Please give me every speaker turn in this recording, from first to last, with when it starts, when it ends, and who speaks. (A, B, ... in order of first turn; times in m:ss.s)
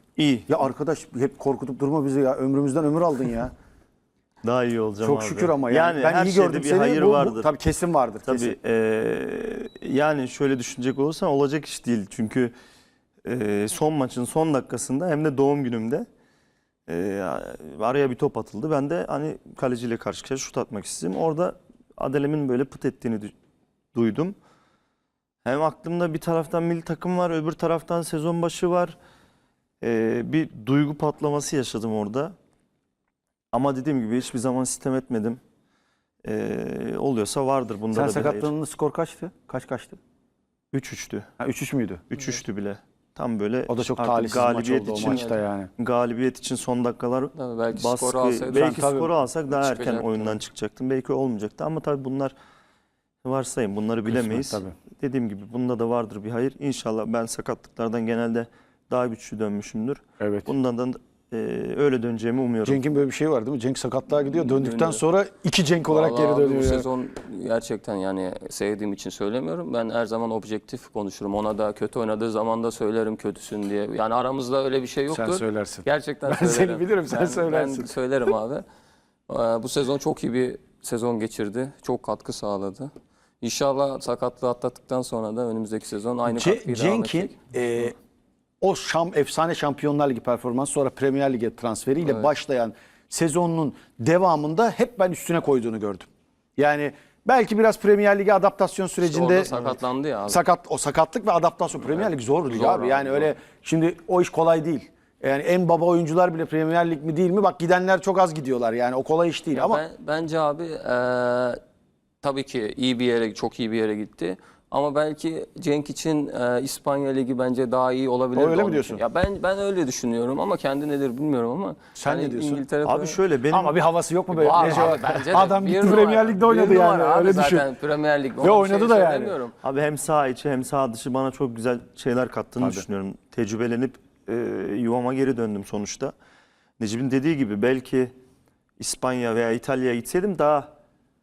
0:00.2-0:00.6 A
0:00.5-0:03.5 B
0:04.4-0:07.5 A
0:05.0-0:08.6 B
0:08.2-0:12.5 A
0:13.2-0:16.1 A
0:16.9-0:23.3 A
0:24.0-0:24.4 A
0:25.4-0:29.0 A
0:29.8-0:32.4 A
0:33.5-0:35.4 A
0:36.2-0:38.6 A
0:37.9-0:40.0 B
0:40.7-0:41.3 A
0:41.4-0:42.0 B
0:42.1-0:52.3 A
0:43.7-0:45.7 B
0:45.0-0:45.4 C
0:47.3-0:49.0 C
0:48.5-0:49.1 B
0:49.5-0:50.4 C
0:53.2-1:02.8 A
0:54.0-0:54.8 B
1:00.2-1:00.5 B
1:02.6-1:06.9 B
1:04.1-1:05.0 C
1:05.9-1:18.6 C
1:15.1-1:18.0 B
1:19.3-1:22.9 C
1:23.4-1:27.4 C
1:26.3-1:28.0 B
1:28.6-1:49.8 B
1:32.0-1:32.3 C
1:39.0-1:40.4 C
1:42.0-1:43.3 C
1:49.5-1:51.6 C
1:52.2-2:03.2 C
1:58.4-1:59.0 B
2:02.0-2:02.6 B
2:02.8-2:03.8 A
2:03.5-2:07.7 B
2:04.3-2:09.5 C
2:04.5-2:05.0 A
2:08.4-2:09.4 B
2:09.6-2:16.1 A
2:12.6-2:12.8 B
2:16.8-2:18.1 A
2:18.8-2:20.7 A